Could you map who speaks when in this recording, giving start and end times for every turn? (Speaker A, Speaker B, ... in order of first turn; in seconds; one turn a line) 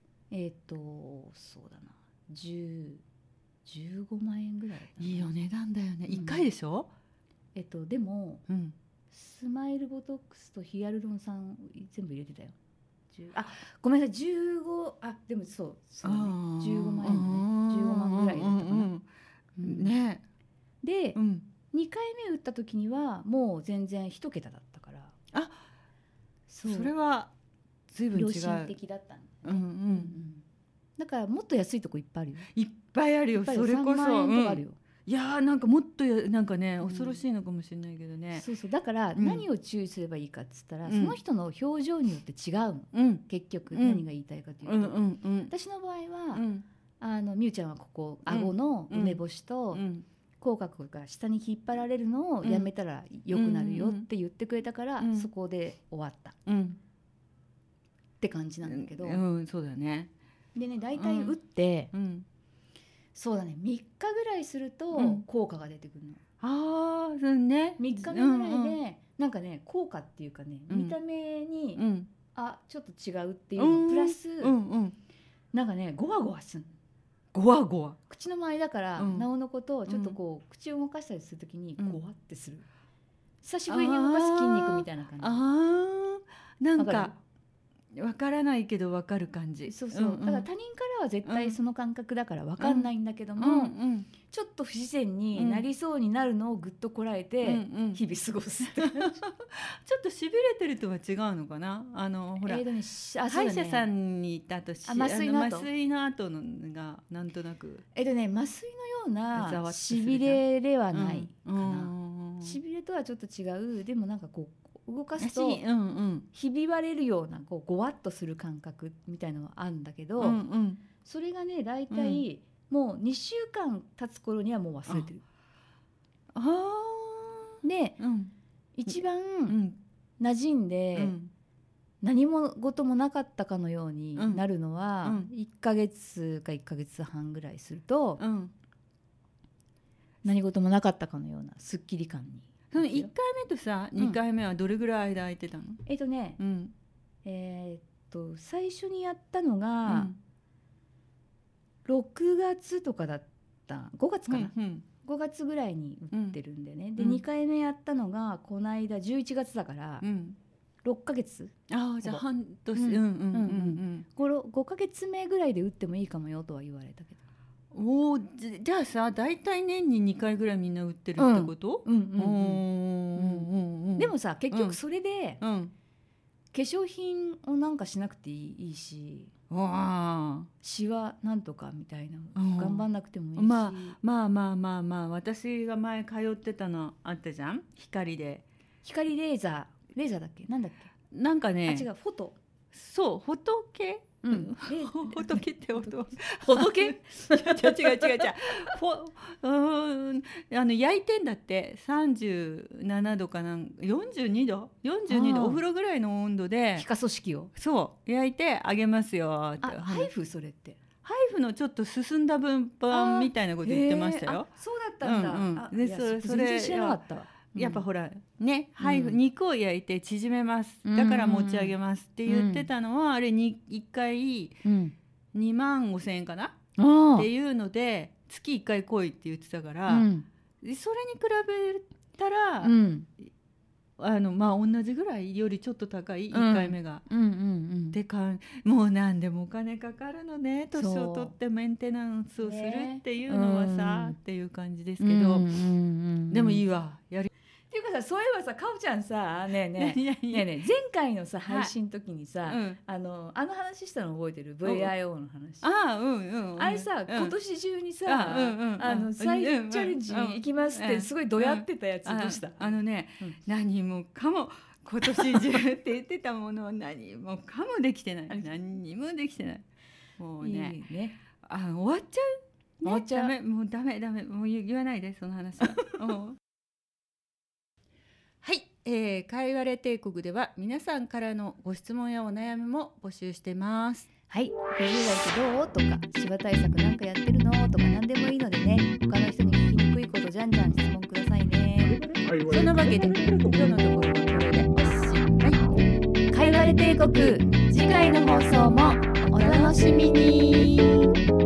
Speaker A: 0.3-3.0
Speaker A: 3.6-5.3
Speaker B: 5.0-6.9
Speaker A: 6.1-6.5
Speaker A: 7.5-8.4
Speaker B: 8.5-8.7
Speaker A: 9.1-12.5
Speaker A: 13.1-18.9
Speaker B: 16.0-19.0
Speaker A: 19.6-19.9
Speaker B: 19.6-20.2
Speaker A: 20.8-21.2
Speaker B: 21.1-21.5
Speaker A: 21.7-25.1
Speaker A: 26.5-26.9
Speaker B: 26.6-27.3
Speaker B: 27.9-28.7
Speaker A: 28.1-30.4
Speaker B: 29.4-30.2
Speaker A: 31.0-32.5
Speaker B: 32.5-38.4
Speaker A: 33.3-34.8
Speaker A: 36.8-37.2
Speaker A: 38.3-46.4
Speaker B: 39.1-39.4
Speaker B: 40.9-41.2
Speaker B: 42.9-44.0
Speaker B: 44.6-45.5
Speaker B: 46.3-46.6
Speaker A: 47.0-49.8
Speaker B: 48.2-49.2
Speaker B: 49.7-50.0
Speaker A: 50.4-56.4
Speaker B: 52.4-52.7
Speaker B: 53.3-54.0
Speaker B: 55.0-55.3
Speaker B: 56.5-56.8
Speaker A: 58.2-59.2
Speaker B: 58.6-60.1
Speaker A: 60.5-61.9
Speaker B: 61.0-61.4
Speaker B: 61.9-62.2
Speaker A: 63.1-66.2
Speaker B: 64.9-65.2
Speaker B: 66.4-68.8
Speaker A: 67.8-71.8
Speaker B: 70.7-71.0
Speaker B: 71.8-72.1
Speaker A: 72.3-74.5
Speaker B: 73.6-75.0
Speaker A: 75.5-76.7
Speaker B: 77.3-78.0
Speaker A: 78.0-82.7
Speaker B: 79.0-79.3
Speaker B: 79.9-80.2
Speaker A: 83.4-85.4
Speaker B: 83.7-87.2
Speaker A: 86.8-87.1
Speaker B: 87.9-90.5
Speaker A: 89.7-99.2
Speaker B: 91.2-91.6
Speaker B: 92.6-94.1
Speaker B: 95.3-95.6
Speaker B: 97.4-98.0
Speaker B: 98.7-102.7
Speaker A: 102.4-103.9
Speaker B: 103.3-107.8
Speaker A: 104.8-105.7
Speaker A: 107.9-115.6
Speaker B: 109.3-112.6
Speaker B: 115.2-116.3
Speaker A: 116.3-120.4
Speaker B: 120.2-120.8
Speaker A: 121.0-125.2
Speaker B: 121.9-122.2
Speaker B: 126.3-128.3
Speaker A: 127.6-128.0
Speaker A: 128.8-129.6
Speaker B: 129.5-129.8
Speaker A: 130.2-131.2
Speaker B: 130.9-131.3
Speaker A: 132.0-138.2
Speaker B: 134.2-134.4
Speaker B: 138.2-138.5
Speaker A: 140.2-143.1
Speaker B: 142.7-145.8
Speaker A: 145.8-146.4
Speaker B: 146.4-146.7
Speaker A: 147.2-150.1
Speaker B: 149.8-150.2
Speaker A: 151.8-154.5
Speaker B: 154.3-154.8
Speaker A: 155.0-160.1
Speaker B: 156.1-156.4
Speaker B: 157.0-157.2
Speaker B: 160.0-160.4
Speaker A: 160.8-162.2
Speaker B: 161.7-164.1
Speaker A: 162.7-167.2
Speaker B: 167.7-174.8
Speaker A: 171.2-172.6
Speaker A: 173.1-175.4
Speaker B: 175.4-175.7
Speaker A: 176.5-179.3
Speaker B: 179.5-180.5
Speaker A: 180.6-184.0
Speaker B: 182.3-188.4
Speaker A: 188.8-190.9
Speaker B: 191.1-191.9
Speaker A: 191.7-192.3
Speaker B: 192.7-206.9
Speaker A: 194.2-198.7
Speaker A: 205.1-205.6
Speaker A: 206.8-207.5
Speaker B: 207.5-210.1
Speaker A: 209.6-210.8
Speaker B: 211.0-214.5
Speaker A: 212.9-217.8
Speaker B: 215.0-217.0
Speaker B: 217.5-224.6
Speaker A: 218.8-219.2
Speaker A: 220.8-221.8
Speaker A: 222.3-222.7
Speaker A: 224.6-224.9
Speaker B: 225.3-226.6
Speaker A: 226.8-227.3
Speaker B: 227.2-230.1
Speaker A: 229.9-230.2
Speaker B: 230.6-232.7
Speaker A: 232.6-233.1
Speaker B: 234.0-237.0
Speaker A: 236.3-238.0
Speaker B: 237.9-245.5
Speaker A: 240.7-241.3
Speaker A: 242.4-244.2
Speaker A: 245.0-246.6
Speaker B: 246.3-247.3
Speaker A: 247.7-255.7
Speaker B: 249.7-250.5
Speaker B: 251.4-251.7
Speaker B: 252.4-252.8
Speaker B: 254.6-254.9
Speaker B: 255.6-257.3
Speaker A: 256.6-263.4
Speaker B: 258.1-269.6
Speaker A: 265.0-265.8
Speaker B: 270.2-270.8
Speaker A: 270.4-271.2
Speaker B: 271.4-276.4
Speaker A: 272.8-273.3
Speaker B: 278.4-284.1
Speaker A: 284.3-292.1
Speaker B: 292.4-295.6
Speaker A: 296.3-300.3
Speaker B: 299.3-301.0